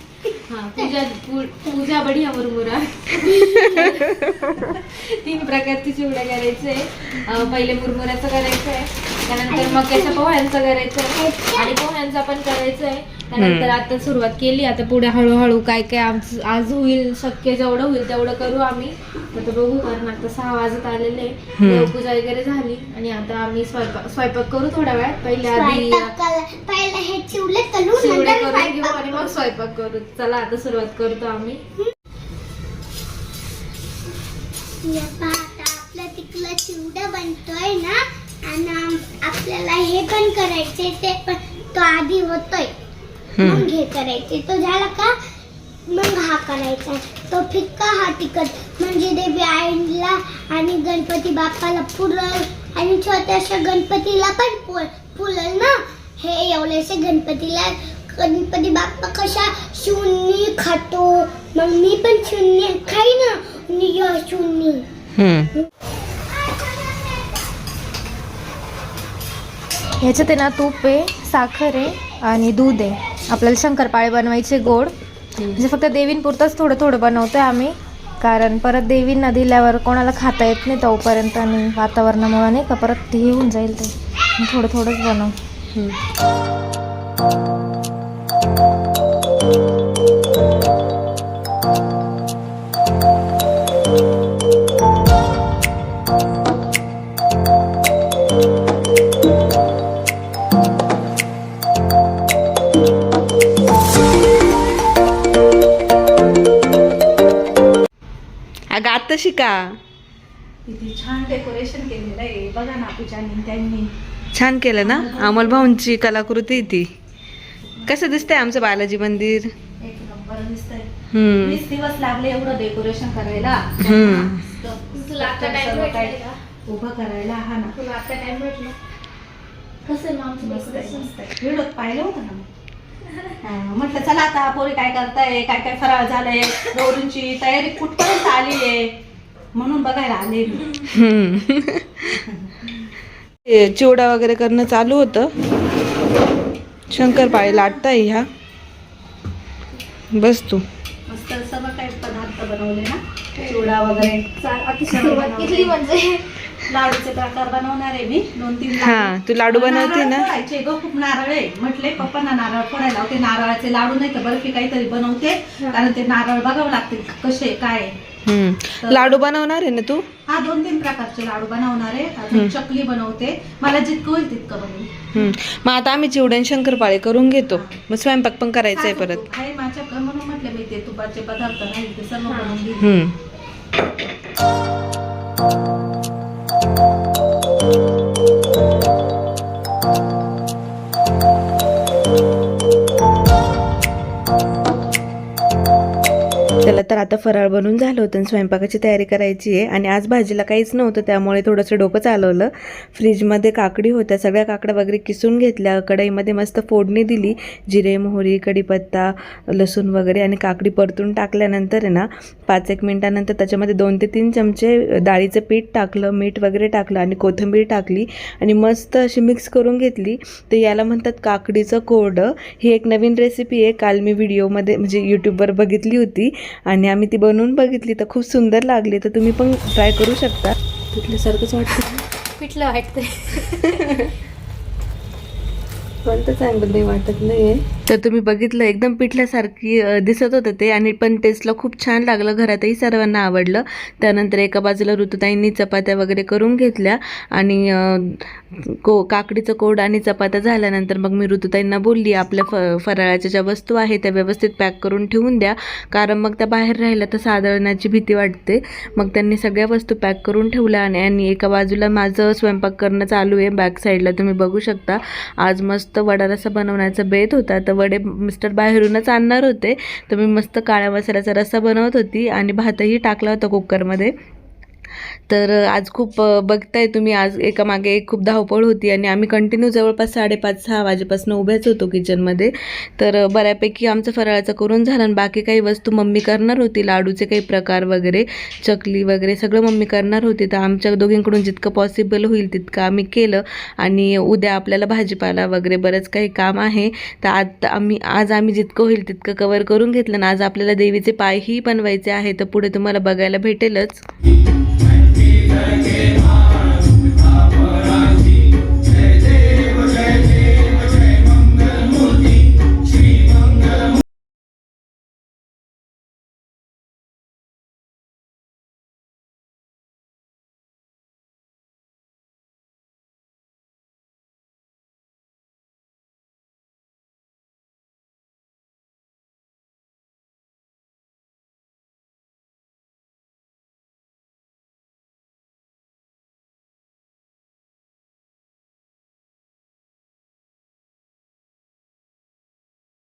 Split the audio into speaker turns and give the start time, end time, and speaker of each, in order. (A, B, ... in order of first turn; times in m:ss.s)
0:00.5-0:26.1 A
0:03.2-0:04.0 B
0:03.3-0:04.6 C
0:09.5-0:10.3 B
0:11.1-0:11.8 B
0:13.4-0:13.8 C
0:21.6-0:21.9 C
0:25.5-0:29.3 B
0:28.0-0:31.6 A
0:34.8-0:42.7 B
0:43.4-0:43.7 C
0:43.4-0:45.1 B
0:45.9-1:04.9 B
1:05.2-1:05.5 C
1:06.5-1:07.0 B
1:10.0-1:14.9 A
1:15.5-1:25.4 A
1:48.7-1:49.8 C
1:50.6-1:53.9 D
1:54.3-1:56.9 C
1:54.8-1:55.8 D
1:57.7-1:58.2 D
1:57.9-1:59.5 C
1:59.8-2:07.7 D
2:01.1-2:01.6 C
2:03.8-2:04.4 C
2:04.9-2:06.4 A
2:07.7-2:08.8 A
2:09.8-2:11.2 A
2:10.4-2:12.4 D
2:13.4-2:18.9 D
2:19.5-2:20.9 D
2:20.9-2:22.2 C
2:22.2-2:22.7 D
2:23.5-2:25.3 C
2:26.9-2:28.3 C
2:30.1-2:30.6 C
2:31.1-2:34.3 D
2:33.4-2:33.7 A
2:34.4-2:36.4 A
2:34.9-2:35.8 D
2:36.7-2:47.9 D
2:38.8-2:40.3 C
2:48.3-2:50.0 C
2:48.8-2:49.2 D
2:50.3-2:55.1 D
2:55.1-2:59.2 C
2:57.5-2:57.8 D
2:58.7-3:02.9 D
3:02.2-3:02.6 A
3:02.8-3:03.2 C
3:16.6-3:52.0 C
3:52.0-3:54.1 A
3:53.8-3:54.1 C
3:56.0-4:34.1 C
4:35.3-5:04.0 C